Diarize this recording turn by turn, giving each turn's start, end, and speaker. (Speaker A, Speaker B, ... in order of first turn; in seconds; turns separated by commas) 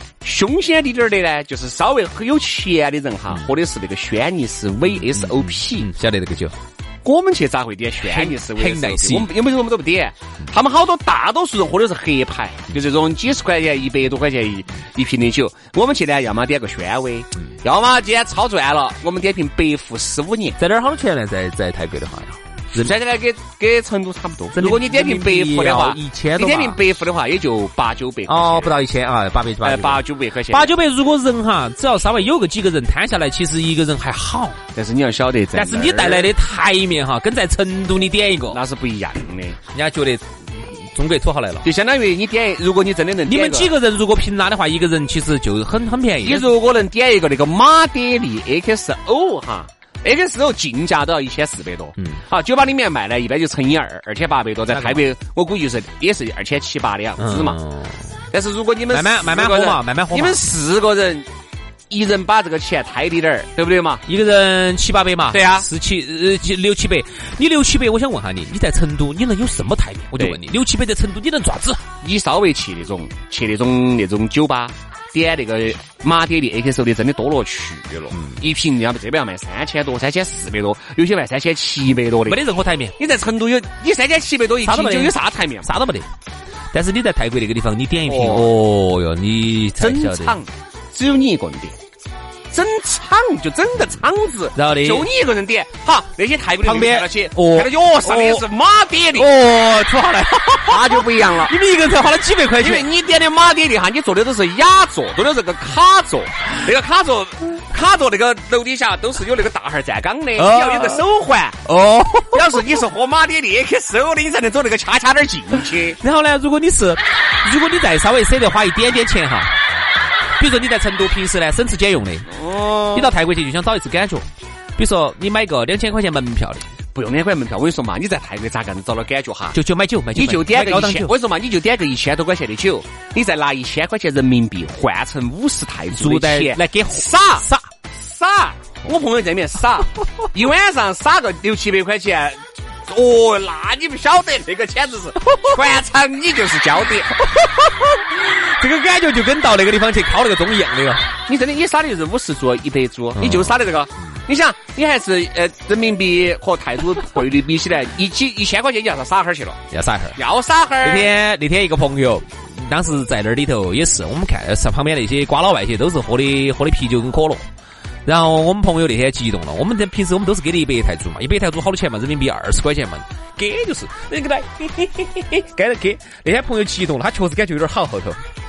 Speaker A: 0.2-5.9, Speaker B: 4.9-6.6, Speaker A: 7.0-20.6, Speaker B: 8.1-9.3, Speaker B: 20.6-22.9, Speaker A: 22.8-28.8, Speaker B: 24.5-26.8, Speaker B: 28.3-34.6, Speaker A: 29.6-30.7, Speaker A: 34.7-36.3, Speaker B: 35.5-38.6, Speaker A: 38.5-39.6, Speaker B: 39.7-41.7, Speaker A: 41.6-43.7, Speaker B: 43.3-46.5, Speaker A: 46.2-57.6, Speaker B: 54.7-55.0, Speaker B: 57.2-58.1, Speaker A: 58.3-61.3, Speaker B: 58.9-60.4, Speaker A: 61.9-64.0, Speaker B: 64.1-71.8, Speaker A: 65.3-65.7, Speaker A: 72.0-82.4, Speaker B: 78.1-78.4, Speaker B: 82.3-83.0, Speaker A: 83.0-85.7, Speaker B: 84.6-86.1, Speaker B: 86.7-90.4, Speaker A: 88.1-88.5, Speaker A: 89.8-91.8, Speaker A: 92.5-99.3, Speaker B: 94.5-95.1, Speaker B: 96.6-98.5, Speaker B: 99.1-102.9, Speaker A: 100.7-101.5, Speaker A: 102.6-111.6, Speaker B: 110.4-111.0, Speaker B: 111.7-112.7, Speaker A: 112.3-116.0, Speaker B: 116.0-119.5, Speaker B: 120.4-122.3, Speaker A: 122.3-123.1, Speaker B: 122.9-124.3, Speaker B: 124.8-126.7, Speaker A: 126.9-129.6, Speaker B: 129.5-131.1, Speaker A: 130.2-147.1, Speaker B: 135.9-137.7, Speaker B: 145.3-145.7, Speaker B: 147.2-151.1, Speaker A: 151.3-159.6, Speaker B: 153.2-153.6, Speaker B: 159.7-160.2, Speaker A: 160.2-161.1, Speaker B: 160.8-167.4, Speaker B: 168.1-178.2